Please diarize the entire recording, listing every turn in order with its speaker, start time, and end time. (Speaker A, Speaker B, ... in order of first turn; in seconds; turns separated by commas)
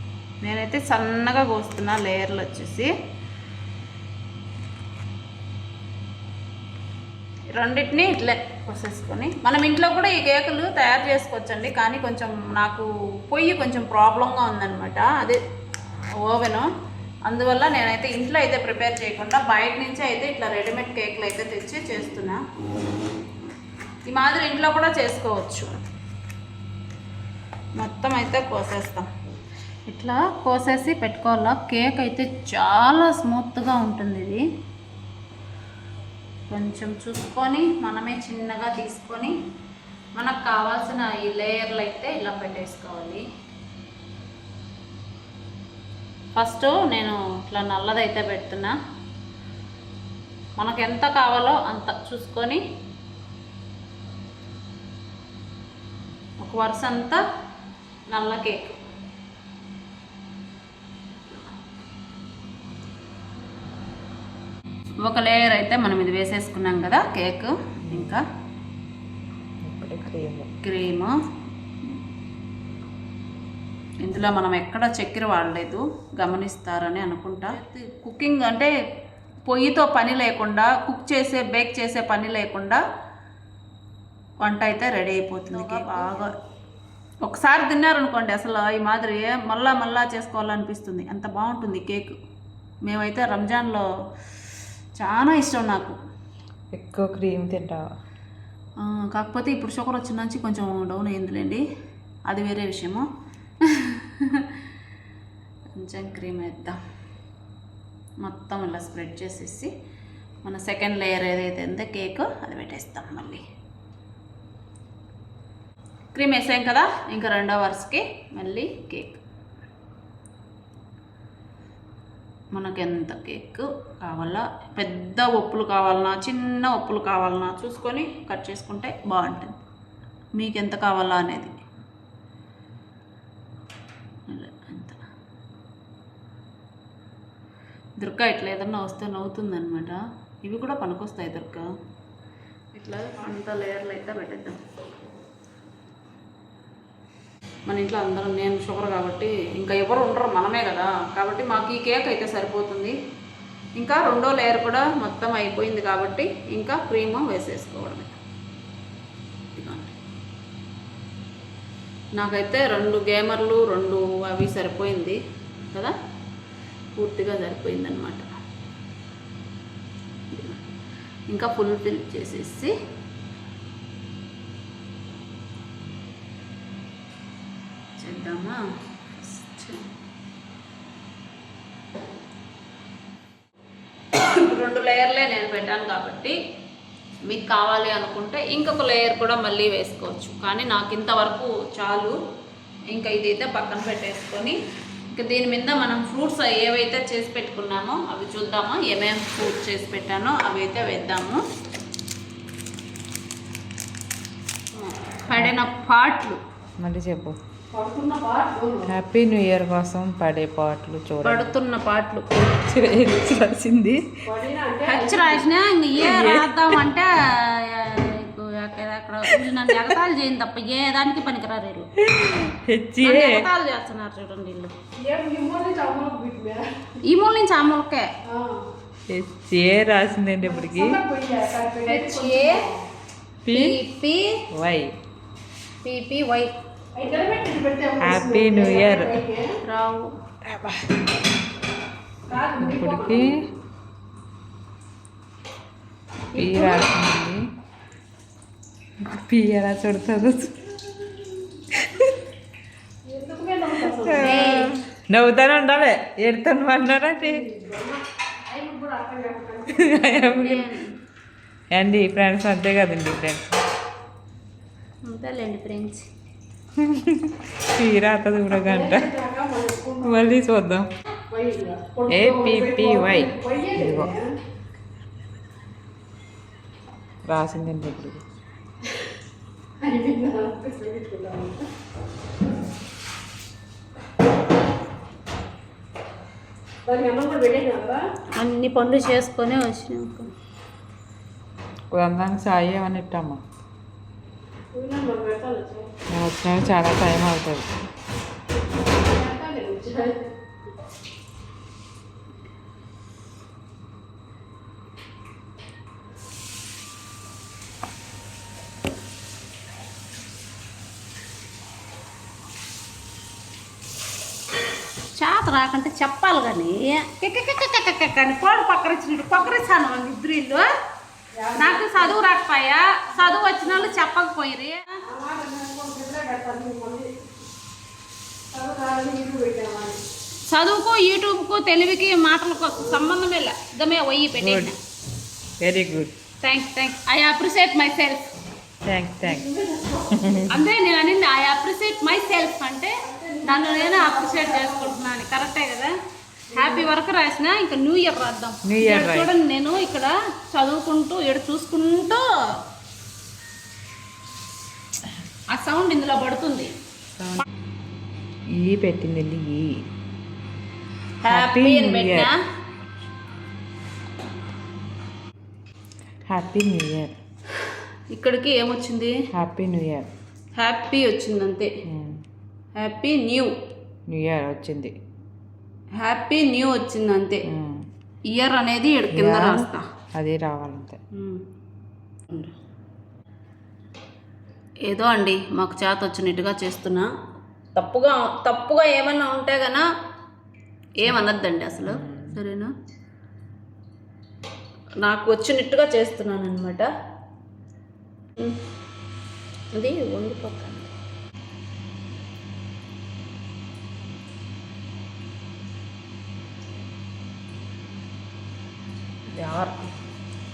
Speaker A: 0.4-2.9, Speaker A: 7.5-15.4, Speaker A: 16.2-16.7, Speaker A: 17.3-22.4, Speaker A: 24.1-25.8, Speaker A: 27.8-29.1, Speaker A: 29.9-34.4, Speaker A: 36.5-39.4, Speaker A: 40.2-43.2, Speaker A: 46.4-48.7, Speaker A: 50.6-52.6, Speaker A: 56.4-57.2, Speaker A: 58.1-58.8, Speaker A: 65.0-68.2, Speaker B: 67.9-68.2, Speaker B: 69.6-70.5, Speaker A: 70.6-71.1, Speaker A: 74.0-78.7, Speaker A: 79.5-82.8, Speaker A: 84.4-86.3, Speaker A: 87.2-92.2, Speaker A: 92.8-93.8, Speaker A: 95.0-96.0, Speaker B: 96.7-97.8, Speaker A: 98.8-101.6, Speaker A: 102.3-103.1, Speaker A: 103.6-104.5, Speaker A: 105.8-106.8, Speaker A: 108.2-109.7, Speaker A: 110.5-113.4, Speaker A: 116.1-119.2, Speaker A: 122.5-129.6, Speaker A: 130.4-131.6, Speaker A: 134.3-135.0, Speaker A: 138.0-141.7, Speaker A: 142.7-144.6, Speaker A: 147.7-153.0, Speaker A: 153.8-158.2, Speaker A: 159.6-159.9, Speaker A: 162.2-165.2, Speaker A: 167.0-168.3, Speaker A: 170.3-170.6, Speaker A: 171.3-172.7, Speaker A: 178.0-178.6, Speaker A: 179.2-179.9, Speaker A: 184.2-186.4, Speaker A: 187.3-192.2, Speaker A: 192.9-194.6, Speaker A: 195.1-201.4, Speaker A: 204.8-206.4, Speaker B: 206.8-207.4, Speaker C: 207.7-208.9, Speaker B: 208.9-211.5, Speaker A: 211.2-212.3, Speaker B: 212.4-214.0, Speaker C: 214.2-215.4, Speaker A: 214.9-221.9, Speaker B: 216.0-216.8, Speaker B: 222.0-223.4, Speaker A: 223.0-224.7, Speaker C: 225.0-226.6, Speaker A: 227.0-228.1, Speaker C: 228.3-228.6, Speaker B: 229.1-231.0, Speaker C: 230.4-232.9, Speaker A: 231.9-232.6, Speaker B: 233.4-233.8, Speaker A: 233.5-234.3, Speaker B: 234.5-234.9, Speaker A: 235.8-236.5, Speaker C: 237.0-239.5, Speaker B: 238.0-239.1, Speaker A: 239.6-240.1, Speaker C: 242.3-243.5, Speaker B: 242.6-243.4, Speaker A: 246.3-246.9, Speaker B: 246.4-247.4, Speaker B: 249.0-250.7, Speaker B: 251.7-252.1, Speaker C: 253.1-254.7, Speaker B: 254.0-257.4, Speaker A: 254.2-254.7, Speaker C: 257.2-260.4, Speaker B: 259.8-260.7, Speaker A: 260.4-260.9, Speaker B: 261.7-263.6, Speaker A: 265.1-266.1, Speaker B: 266.8-269.1, Speaker C: 268.5-270.4, Speaker B: 270.0-270.9, Speaker C: 271.3-274.3, Speaker B: 272.1-274.1, Speaker B: 277.3-278.2, Speaker C: 279.8-281.6, Speaker C: 286.9-288.0, Speaker A: 288.4-290.3, Speaker B: 291.9-293.4, Speaker C: 294.7-295.9, Speaker B: 296.1-297.7, Speaker C: 299.0-300.3, Speaker A: 315.2-320.6, Speaker C: 321.4-322.2, Speaker A: 321.6-325.0, Speaker C: 323.2-323.9, Speaker C: 325.1-327.1, Speaker C: 328.5-330.0, Speaker A: 330.5-334.8, Speaker B: 334.4-334.7, Speaker B: 335.6-336.1, Speaker A: 336.4-338.2, Speaker B: 338.9-339.5, Speaker C: 339.2-340.2, Speaker B: 340.1-340.5, Speaker A: 340.5-345.9, Speaker C: 343.0-345.0, Speaker C: 346.5-346.9, Speaker A: 346.5-352.2, Speaker B: 348.7-349.3, Speaker A: 355.5-356.7, Speaker B: 357.2-357.4, Speaker B: 358.6-359.7, Speaker A: 361.2-362.4, Speaker B: 361.3-362.3, Speaker B: 366.3-367.1, Speaker A: 368.1-369.1, Speaker B: 369.3-370.1, Speaker A: 370.6-371.7, Speaker B: 371.9-372.2, Speaker A: 372.8-373.5, Speaker B: 374.1-374.9, Speaker A: 376.0-377.4, Speaker B: 377.5-377.8, Speaker A: 378.3-379.8, Speaker B: 379.1-381.0, Speaker A: 381.1-381.4, Speaker A: 384.9-387.1, Speaker A: 387.8-389.8, Speaker A: 391.0-392.7, Speaker B: 391.9-392.4, Speaker A: 395.0-396.9, Speaker A: 399.8-400.9, Speaker A: 409.3-409.9